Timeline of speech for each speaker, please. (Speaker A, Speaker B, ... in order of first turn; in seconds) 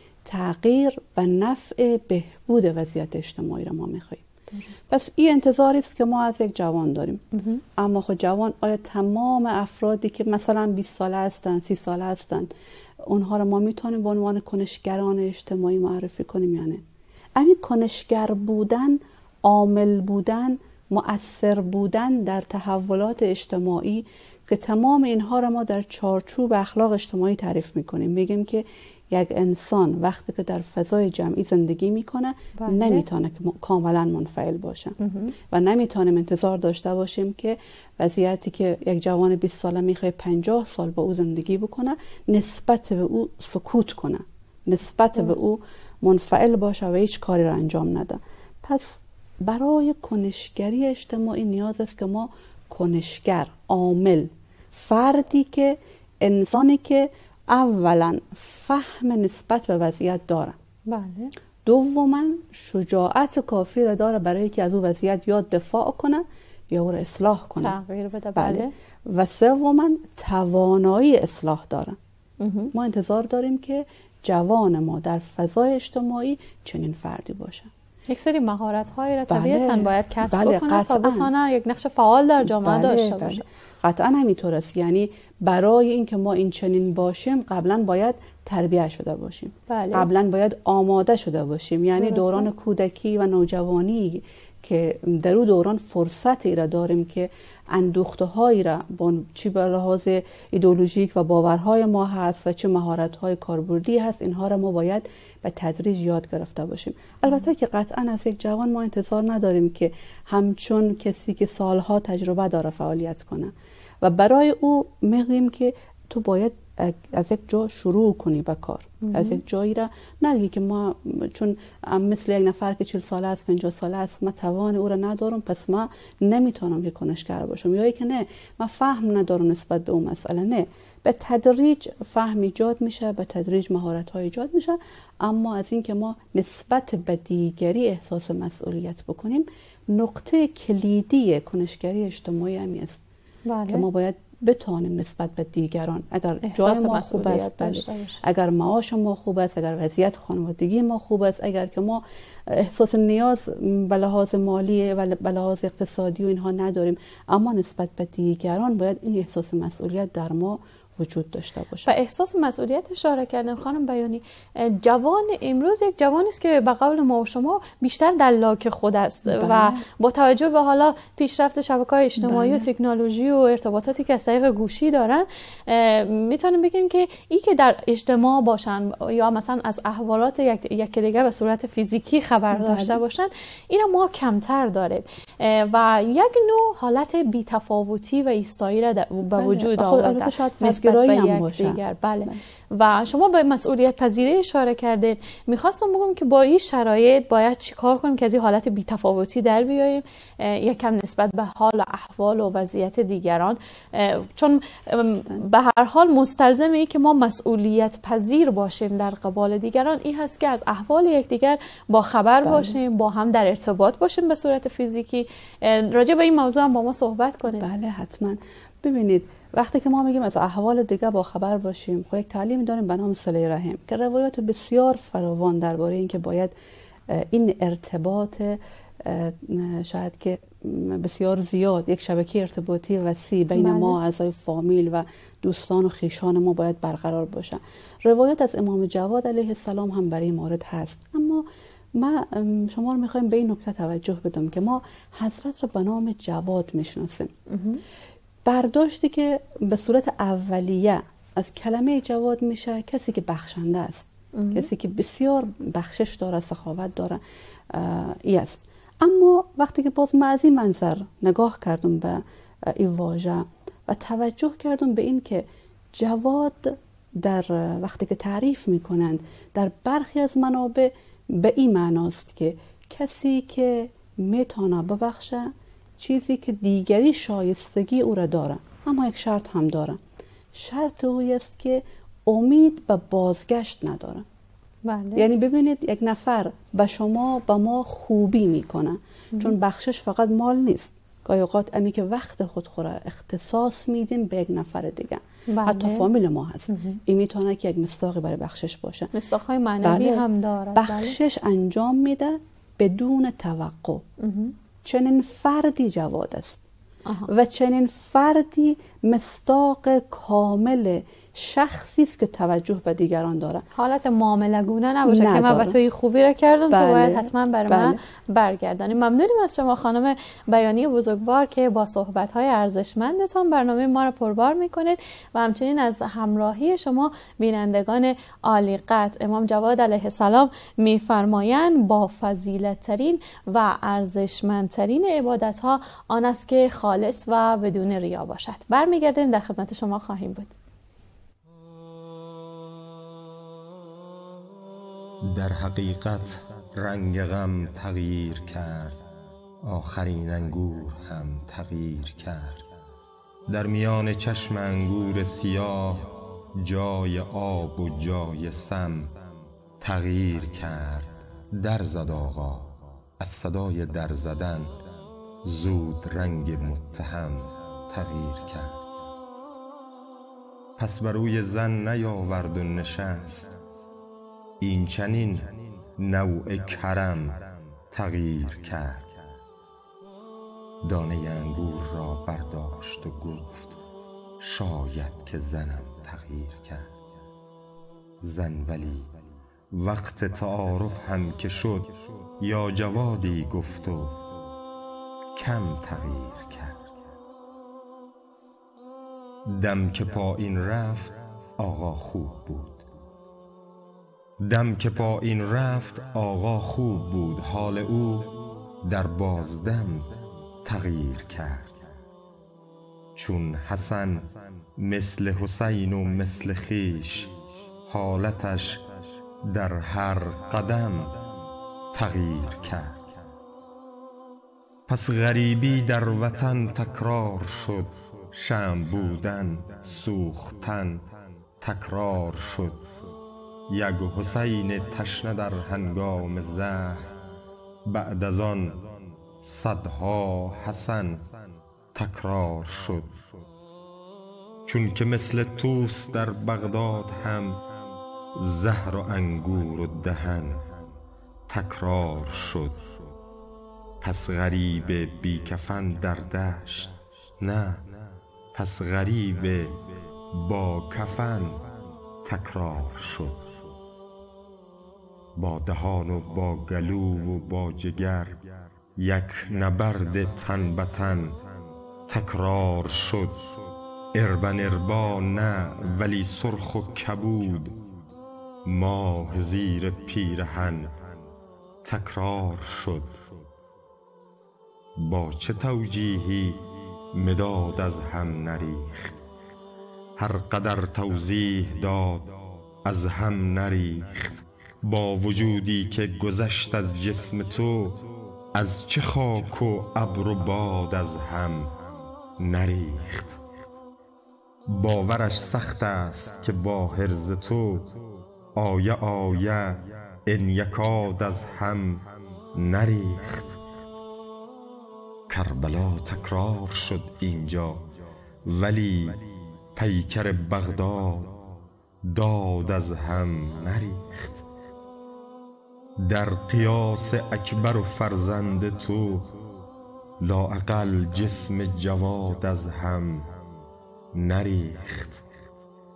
Speaker A: 0.2-4.2, 4.9-7.2, 7.8-12.5, 13.1-16.8, 17.4-60.6, 61.6-67.8, 68.3-72.0, 72.7-77.7, 79.3-81.3, 82.4-143.0, 143.7-161.9, 169.3-169.8, 172.2-172.7, 182.5-183.0, 189.3-192.4, 212.4-212.8, 217.6-226.5, 227.1-247.3, 248.5-280.0, 280.5-284.3, 285.2-299.1, 299.8-304.0, 304.8-306.6, 307.3-313.6, 315.1-315.8, 316.7-318.0
Speaker B: 4.5-4.8, 7.3-7.6, 32.6-33.0, 35.0-35.3, 45.2-45.4, 60.9-61.3, 67.6-68.7, 72.4-72.7, 78.1-83.4, 89.7-90.1, 92.0-92.5, 119.0-119.4, 143.5-143.9, 146.4-148.2, 161.9-217.7, 233.6-234.0, 247.5-247.8, 254.3-254.7, 284.9-285.3, 295.5-296.1, 296.7-297.0, 299.1-301.2, 304.2-304.5, 313.7-340.5
Speaker C: 345.2-349.0, 349.6-352.7, 353.5-359.1, 359.8-364.8, 365.4-368.8, 370.8-373.6, 374.6-379.1, 380.8-383.8, 384.4-386.9, 388.2-389.1, 389.7-394.2, 395.4-396.9, 399.5-402.8, 404.4-408.3, 408.8-410.1, 410.6-411.9, 413.2-417.3, 417.9-418.8, 419.4-421.2, 421.9-423.1, 424.9-431.1, 431.6-432.9, 433.7-437.1, 437.9-438.9, 439.4-441.3, 441.9-443.2, 444.7-447.6, 448.4-450.8, 451.5-452.9, 454.0-457.9, 458.5-461.6, 462.2-463.5, 465.4-468.4, 469.0-471.4, 472.1-473.4, 474.1-477.8, 478.7-481.0, 481.8-483.2, 485.0-489.2, 490.2-501.8, 502.4-503.4, 504.7-507.9, 508.6-513.6, 515.3-517.9, 518.5-519.2, 519.8-521.3, 522.0-524.4, 526.0-529.3, 530.2-533.3, 534.1-535.2